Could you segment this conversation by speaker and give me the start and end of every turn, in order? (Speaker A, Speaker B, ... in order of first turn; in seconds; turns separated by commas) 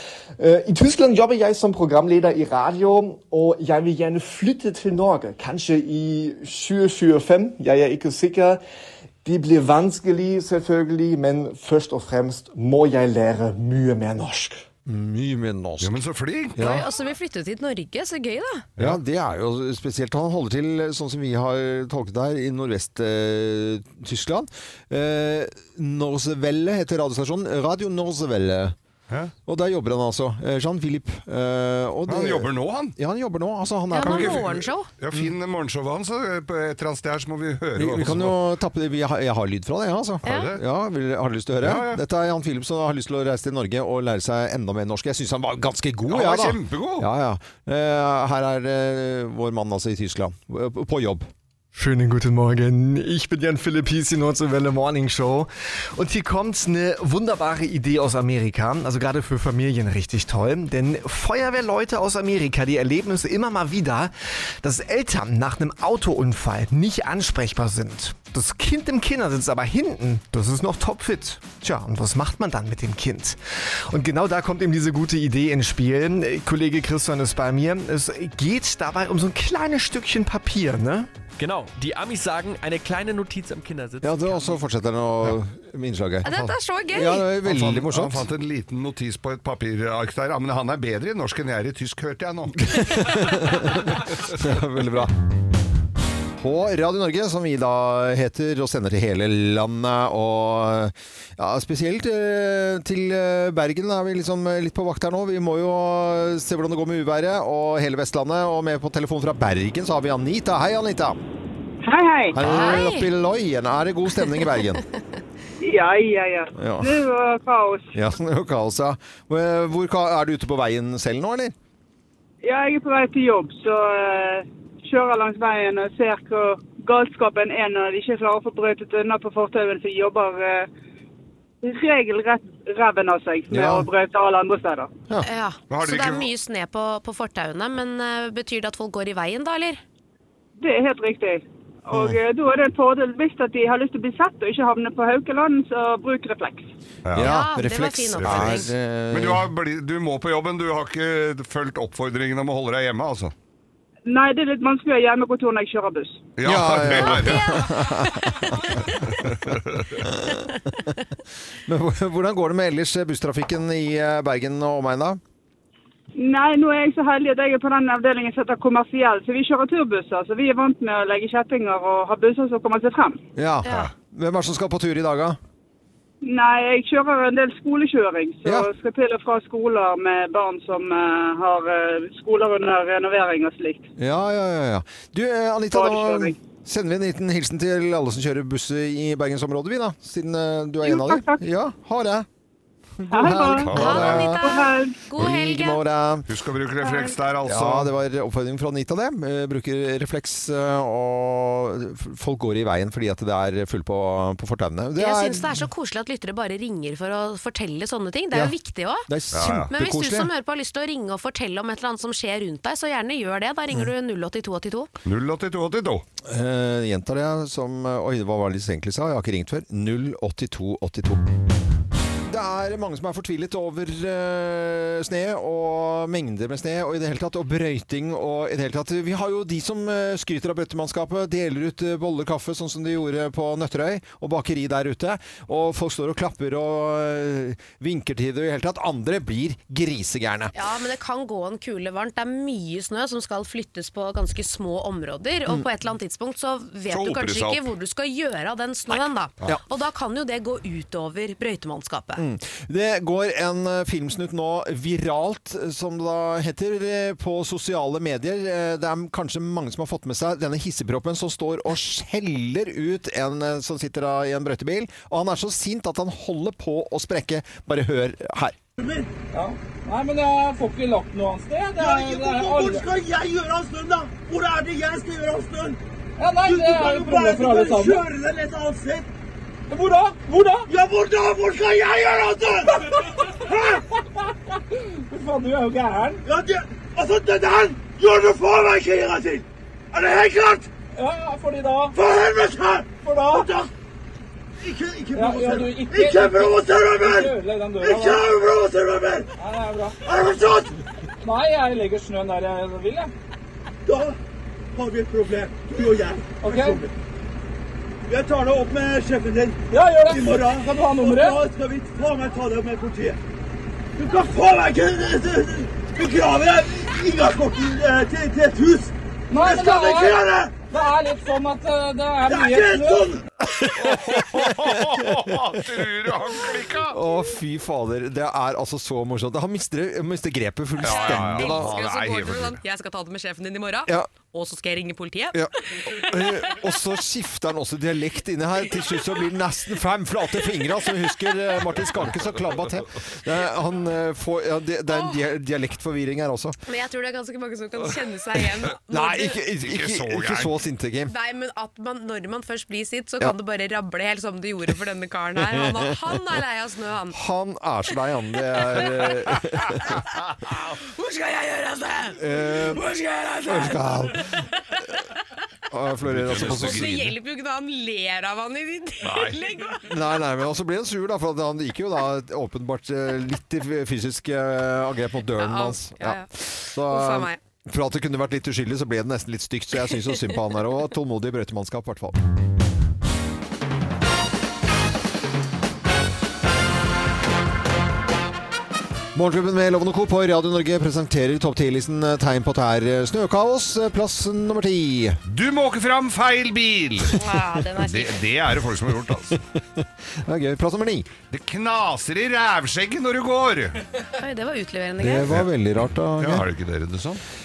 Speaker A: 0.4-8.6, Speaker A: 9.2-14.6, Speaker B: 14.8-15.9, Speaker C: 15.8-16.7, Speaker B: 16.6-16.8, Speaker D: 16.6-18.6, Speaker B: 18.8-28.7, Speaker B: 29.4-34.4, Speaker C: 32.1-33.0, Speaker D: 33.9-34.9, Speaker C: 34.0-38.4, Speaker B: 37.8-51.3, Speaker C: 40.2-40.6, Speaker D: 40.2-40.5, Speaker C: 41.6-42.0, Speaker C: 46.1-47.1, Speaker A: 51.7-81.1, Speaker E: 81.4-84.6, Speaker B: 84.0-86.3, Speaker D: 86.2-87.3, Speaker B: 86.9-88.3, Speaker C: 87.4-94.2, Speaker B: 92.7-95.1, Speaker B: 96.4-111.2, Speaker F: 111.8-112.4, Speaker B: 112.3-114.8, Speaker D: 112.4-113.1, Speaker F: 115.6-117.9, Speaker B: 116.5-117.0, Speaker B: 117.9-121.5, Speaker F: 122.4-130.7, Speaker F: 131.6-134.9, Speaker B: 133.5-133.9, Speaker D: 135.2-139.8, Speaker C: 135.7-136.3, Speaker F: 140.6-146.7, Speaker B: 141.9-142.2, Speaker C: 147.1-147.3, Speaker B: 147.1-149.5, Speaker D: 147.2-148.7, Speaker C: 148.2-153.3, Speaker F: 154.1-156.3, Speaker C: 156.4-157.7, Speaker B: 156.4-160.9, Speaker D: 157.0-158.6, Speaker C: 159.0-160.0, Speaker B: 161.7-165.2, Speaker F: 166.1-173.2, Speaker B: 173.3-175.4, Speaker D: 173.6-173.9, Speaker F: 176.2-183.9, Speaker B: 178.4-178.7, Speaker B: 184.0-192.2, Speaker F: 185.7-186.3, Speaker F: 190.8-191.4, Speaker B: 193.0-194.4, Speaker F: 193.1-193.8, Speaker C: 193.6-194.4, Speaker D: 193.7-195.8, Speaker F: 194.4-195.0, Speaker B: 195.2-196.3, Speaker C: 196.3-197.9, Speaker B: 197.4-205.6, Speaker D: 204.9-209.1, Speaker B: 209.1-210.3, Speaker C: 209.3-209.7, Speaker D: 209.7-214.9, Speaker C: 215.0-216.0, Speaker B: 216.2-221.2, Speaker B: 222.2-240.5, Speaker D: 240.5-252.2, Speaker C: 246.9-247.6, Speaker B: 252.2-268.5, Speaker G: 268.8-269.1, Speaker H: 269.3-272.8, Speaker G: 271.8-275.8, Speaker H: 276.2-278.0, Speaker G: 276.4-279.1, Speaker H: 279.7-280.7, Speaker G: 280.7-282.9, Speaker H: 282.8-286.2, Speaker G: 283.5-283.8, Speaker G: 286.2-290.7, Speaker H: 290.9-291.9, Speaker G: 291.9-293.7, Speaker H: 293.0-293.5, Speaker G: 294.6-299.3, Speaker H: 295.1-298.2, Speaker H: 299.4-300.0, Speaker G: 300.1-300.7, Speaker H: 301.2-303.1, Speaker G: 303.9-304.1, Speaker G: 304.7-306.9, Speaker H: 306.4-306.8, Speaker G: 308.1-313.2, Speaker H: 309.7-311.4, Speaker G: 313.9-320.5, Speaker H: 319.3-323.1, Speaker G: 322.2-323.2, Speaker B: 323.5-325.1, Speaker C: 323.7-327.0, Speaker B: 326.9-331.8, Speaker C: 330.8-332.6, Speaker D: 330.8-336.5, Speaker B: 335.3-346.6, Speaker D: 344.9-345.2, Speaker D: 346.6-349.4, Speaker B: 348.9-351.1, Speaker C: 348.9-350.5, Speaker D: 351.1-357.2, Speaker B: 357.1-360.0, Speaker D: 358.7-359.1, Speaker D: 359.7-364.8, Speaker B: 362.2-362.8, Speaker B: 363.4-364.4, Speaker B: 365.7-366.9, Speaker C: 366.0-367.1, Speaker D: 366.3-369.9, Speaker C: 369.0-369.4, Speaker B: 369.8-382.2, Speaker D: 375.4-377.4, Speaker B: 389.1-395.2, Speaker C: 395.3-399.4, Speaker D: 397.1-398.2, Speaker B: 399.3-401.1, Speaker C: 401.3-403.8, Speaker D: 404.1-405.3, Speaker B: 405.0-406.4, Speaker C: 406.2-407.2